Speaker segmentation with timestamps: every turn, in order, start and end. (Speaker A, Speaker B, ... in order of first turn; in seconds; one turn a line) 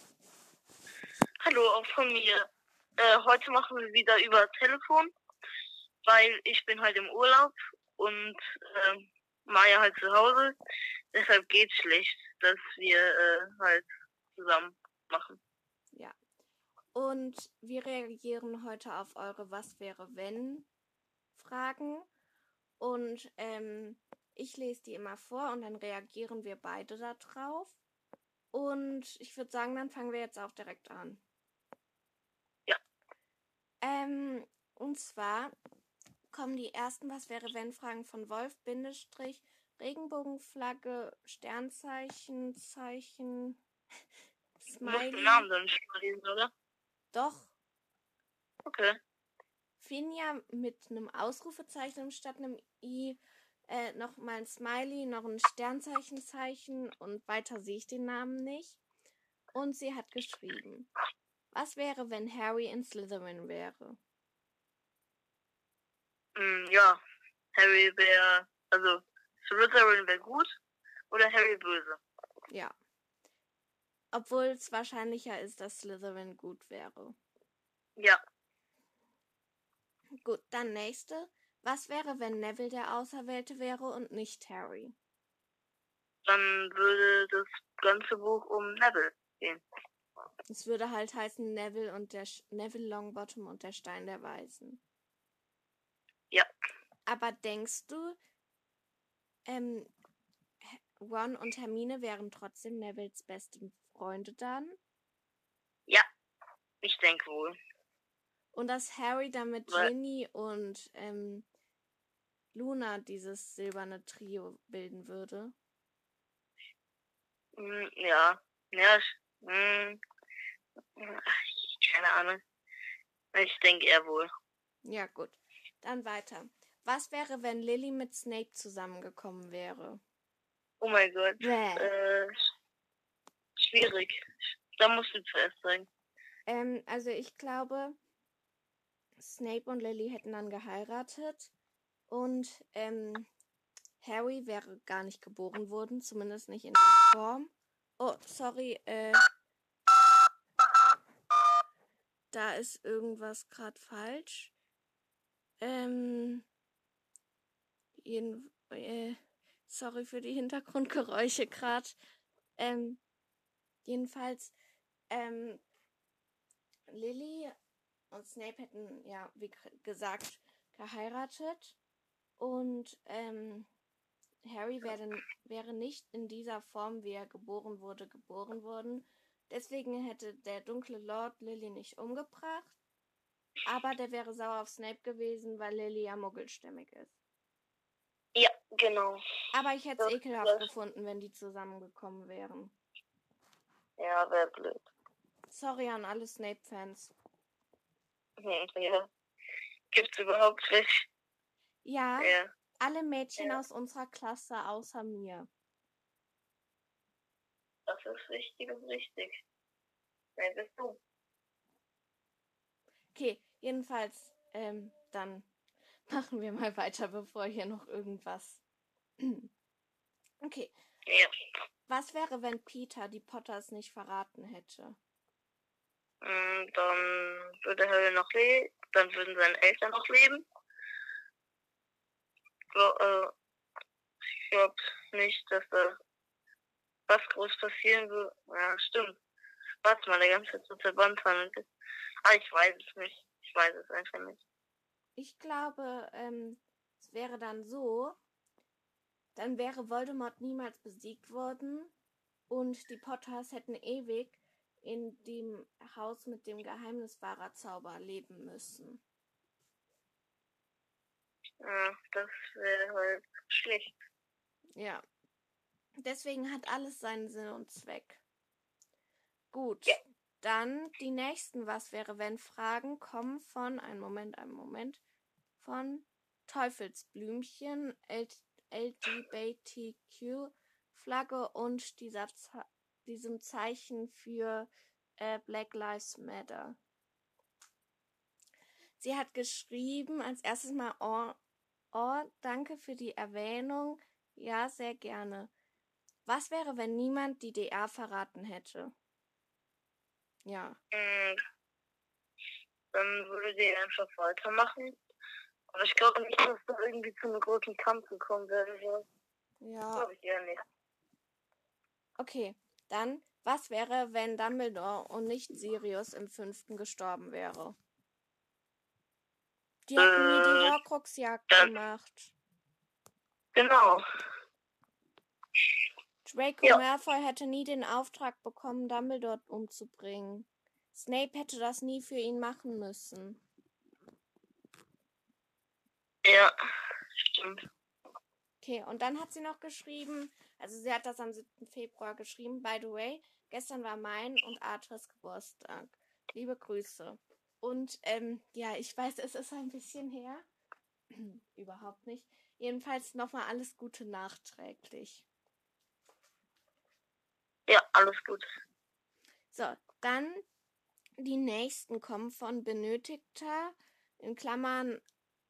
Speaker A: 1.4-2.5
Speaker A: 3.0-5.1
Speaker A: 6.0-10.6
Speaker A: 11.1-15.4
Speaker B: 16.9-20.7
Speaker B: 21.4-22.1
Speaker B: 22.8-27.8
Speaker B: 28.5-31.2
Speaker B: 33.8-35.5
Speaker B: 36.3-43.6
Speaker B: 44.6-45.5
Speaker A: 44.8-46.5
Speaker B: 47.1-47.5
Speaker A: 48.7-49.0
Speaker B: 49.8-58.8
Speaker B: 59.5-60.9
Speaker B: 61.5-64.0
Speaker A: 66.4-67.0
Speaker A: 67.5-70.5
Speaker A: 71.1-72.0
Speaker B: 74.1-77.2
Speaker B: 80.2-85.0
Speaker A: 86.2-89.6
Speaker B: 90.5-94.8
Speaker B: 97.1-98.2
Speaker B: 99.5-99.9
Speaker B: 100.6-104.8
Speaker A: 106.8-107.6
Speaker B: 108.5-111.5
Speaker B: 112.5-115.5
Speaker A: 117.6-120.0
Speaker A: 121.0-122.4
Speaker A: 123.3-124.3
Speaker B: 124.8-130.0
Speaker A: 130.8-132.3
Speaker B: 131.4-131.9
Speaker A: 133.6-135.9
Speaker B: 136.5-138.0
Speaker B: 139.2-141.5
Speaker B: 142.1-143.3
Speaker B: 144.0-149.2
Speaker B: 152.3-154.5
Speaker B: 155.6-156.5
Speaker B: 158.0-162.0
Speaker B: 162.6-163.0
Speaker B: 163.8-164.5
Speaker B: 165.1-165.6
Speaker B: 166.9-167.5
Speaker B: 168.1-171.8
Speaker B: 172.4-173.7
Speaker B: 174.4-182.8
Speaker B: 183.7-187.2
Speaker A: 188.3-189.2
Speaker B: 189.5-192.8
Speaker A: 190.0-190.7
Speaker A: 194.0-194.9
Speaker B: 195.5-197.1
Speaker A: 198.4-199.1
Speaker A: 199.9-201.1
Speaker B: 201.8-205.5
Speaker A: 202.2-202.5
Speaker A: 207.9-209.4
Speaker A: 210.4-211.0
Speaker B: 213.1-215.5
Speaker B: 216.1-218.6
Speaker B: 219.2-219.5
Speaker B: 220.4-220.7
Speaker A: 221.1-221.3
Speaker B: 221.9-225.0
Speaker A: 226.2-230.5
Speaker A: 232.7-233.3
Speaker A: 234.4-236.0
Speaker A: 237.1-239.2
Speaker A: 239.8-241.7
Speaker A: 242.2-244.4
Speaker B: 245.2-248.2
Speaker B: 249.3-251.9
Speaker B: 252.5-259.0
Speaker A: 261.6-263.9
Speaker B: 264.8-265.0
Speaker B: 266.0-268.2
Speaker B: 269.5-275.0
Speaker B: 275.6-286.8
Speaker B: 289.0-291.4
Speaker B: 291.9-295.5
Speaker B: 296.3-298.9
Speaker B: 300.4-300.8
Speaker A: 300.9-301.4
Speaker A: 302.9-305.0
Speaker A: 305.7-309.1
Speaker B: 309.6-310.1
Speaker A: 309.9-310.6
Speaker B: 312.2-317.8
Speaker B: 319.9-322.3
Speaker A: 320.0-320.8
Speaker A: 323.6-324.0
Speaker B: 326.2-333.4
Speaker A: 336.2-336.5
Speaker A: 337.2-337.6
Speaker B: 338.6-350.5
Speaker B: 351.1-355.3
Speaker A: 357.7-358.5
Speaker B: 359.5-360.4
Speaker B: 361.2-365.0